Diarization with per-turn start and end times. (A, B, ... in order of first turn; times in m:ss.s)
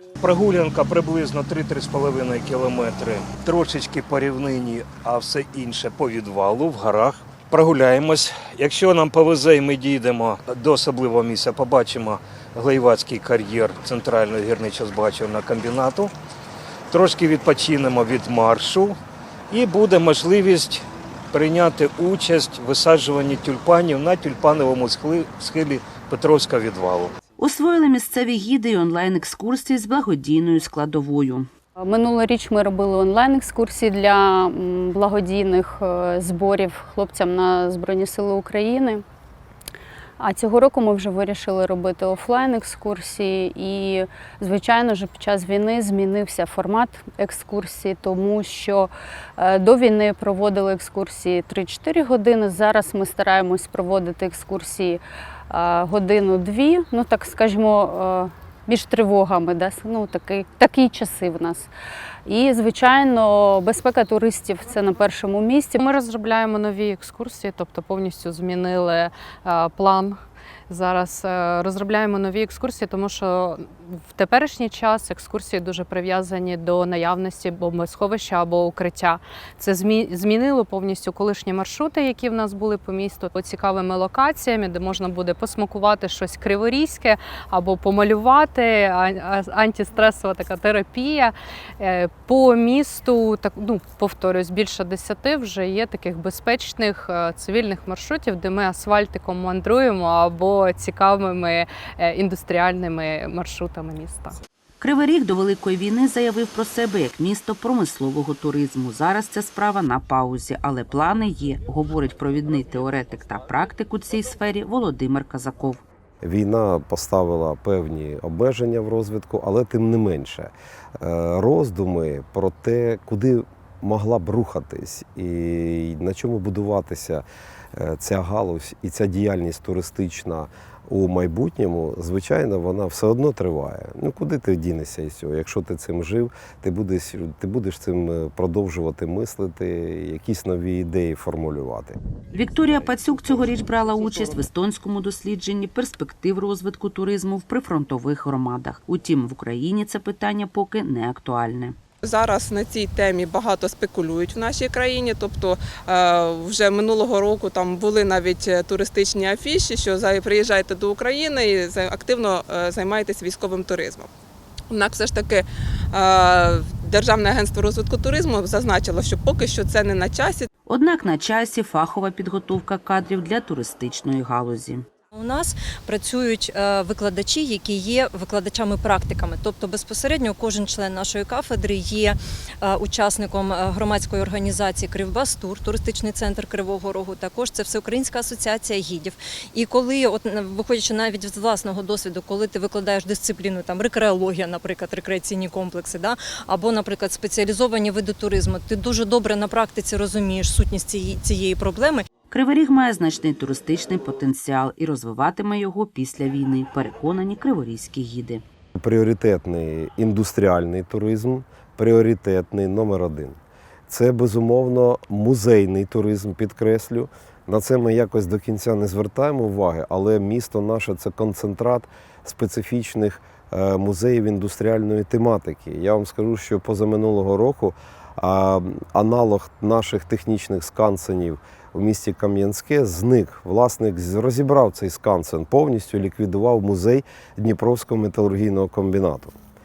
0:00.2-0:16.1 A
0:16.9-0:19.0 A
0:19.5-0:27.1 A
0:27.4-0:31.5 B
0:31.8-0:39.0 C
0:40.2-1:01.7 C
1:02.2-1:05.8 C
1:05.8-1:44.3 D
1:44.8-1:55.8 B
1:56.2-2:22.0 E
2:22.3-2:31.8 B
2:32.0-2:44.1 F
2:44.7-2:50.5 F
2:50.7-2:54.8 B
2:55.1-3:22.0 G
3:22.3-3:28.4 B
3:28.8-3:59.3 E